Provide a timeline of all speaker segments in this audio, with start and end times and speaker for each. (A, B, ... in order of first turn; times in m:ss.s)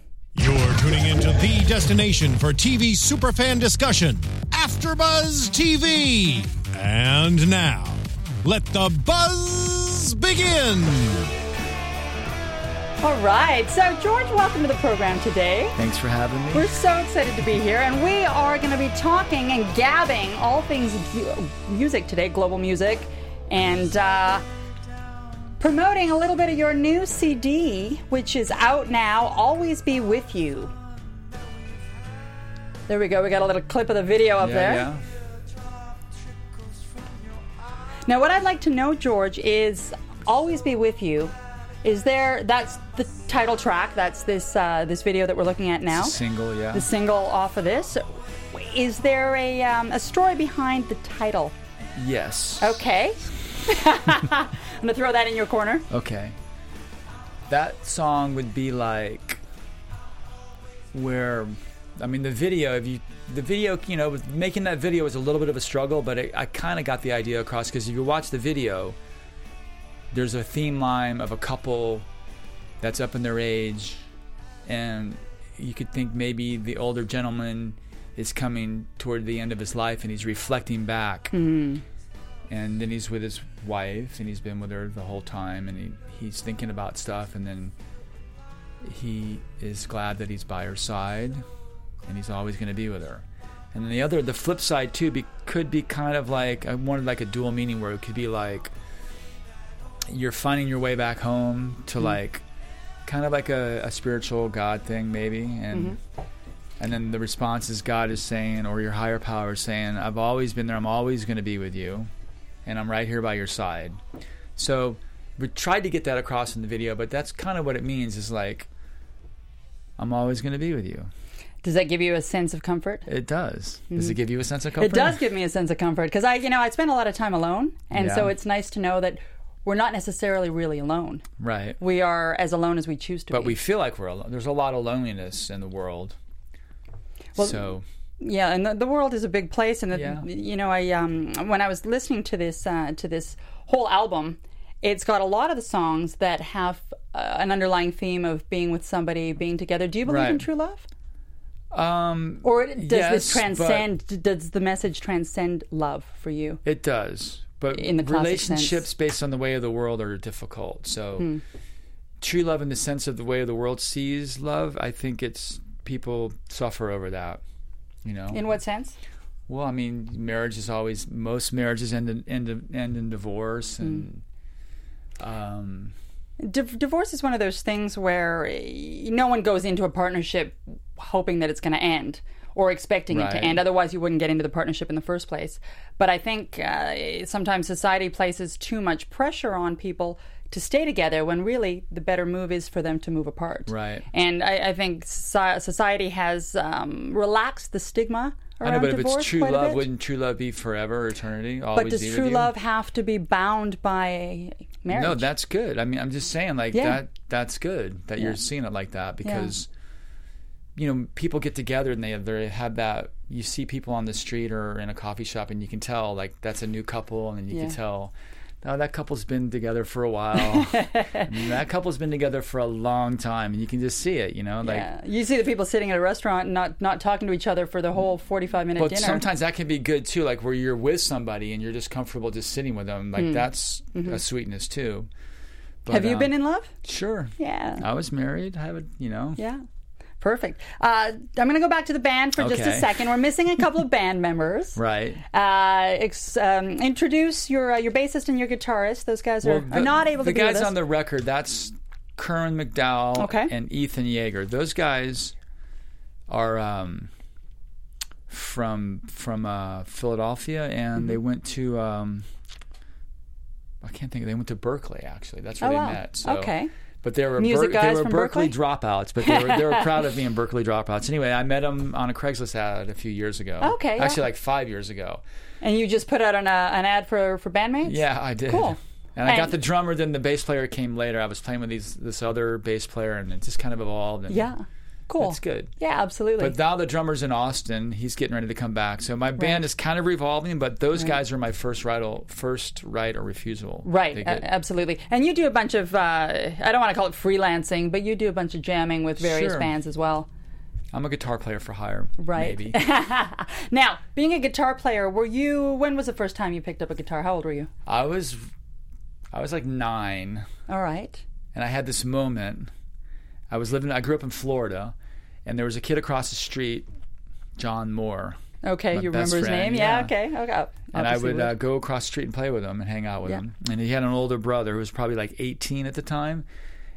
0:00.4-0:11.3 A
0:13.0-0:15.8 B
0:15.8-0:16.7 C
0:16.5-0:24.4 B
0:25.6-0:30.7 B
0:32.9-0:34.9 B
0:34.4-0:35.1 C
0:38.0-0:46.2 B
0:45.9-0:46.9 C
0:46.7-0:51.5 B
0:52.0-0:52.8 C
0:52.6-0:55.8 B
0:55.9-0:56.4 C
0:57.5-0:59.4 C
1:00.9-1:09.0 C
1:10.1-1:12.0 C
1:12.8-1:14.0 C
1:14.6-1:21.3 C
1:21.3-1:21.8 B
1:22.5-1:27.7 C
1:28.8-1:31.4 C
1:32.0-1:38.7 C
1:40.1-1:42.4 C
1:43.0-1:46.0 C
1:45.7-1:46.0 B
1:46.8-1:52.1 C
1:52.6-1:54.0 C
1:54.6-1:58.7 C
2:00.0-2:01.1 C
2:01.6-2:03.1 B
2:03.1-2:05.2 C
2:03.9-2:04.2 B
2:04.8-2:11.2 B
2:07.9-2:08.3 C
2:11.4-2:11.8 C
2:11.8-2:13.6 B
2:13.3-2:16.2 C
2:17.3-2:17.6 B
2:17.4-2:17.8 C
2:18.2-2:30.9 B
2:19.9-2:20.2 C
2:30.0-2:30.4 C
2:31.7-2:33.9 C
2:32.4-2:36.6 B
2:36.6-2:41.3 C
2:37.7-2:38.8 B
2:42.2-2:47.4 C
2:48.0-2:48.4 C
2:48.3-2:49.0 B
2:49.5-2:54.2 C
2:55.2-2:55.9 C
2:56.4-3:19.8 B
3:03.1-3:03.6 C
3:13.7-3:14.0 C
3:18.6-3:22.5 C
3:21.7-3:25.3 B
3:24.9-3:29.7 C
3:26.7-3:27.0 B
3:29.2-3:29.5 B
3:30.8-3:44.9 C
3:37.5-3:37.8 B
3:40.3-3:41.3 B
3:44.6-3:49.2 B
3:48.8-3:55.1 C
3:53.2-3:54.2 B
3:55.8-3:59.4 C
3:55.9-3:56.7 B
3:57.4-3:57.8 B
3:59.4-3:59.6 B
4:00.2-4:04.8 B
4:02.4-4:03.0 C
4:04.7-4:05.2 C
4:05.3-4:10.7 B
4:09.4-4:15.3 C
4:13.2-4:13.5 B
4:16.3-4:17.1 C
4:18.3-4:22.3 C
4:23.8-4:35.2 C
4:25.6-4:26.7 B
4:27.4-4:28.5 B
4:29.2-4:29.9 B
4:33.6-4:34.2 B
4:35.6-4:39.5 B
4:37.8-4:44.5 C
4:44.3-4:46.6 B
4:45.2-4:45.7 C
4:46.4-4:54.4 C
4:49.4-4:49.6 B
4:53.8-5:00.3 B
4:59.2-4:59.7 C
5:00.9-5:02.8 C
5:02.2-5:07.7 B
5:07.8-5:08.5 C
5:09.3-5:10.4 C
5:10.7-5:11.2 B
5:11.5-5:12.7 C
5:13.5-5:16.9 C
5:17.6-5:18.4 C
5:18.6-5:21.5 B
5:18.9-5:20.1 C
5:20.9-5:26.4 C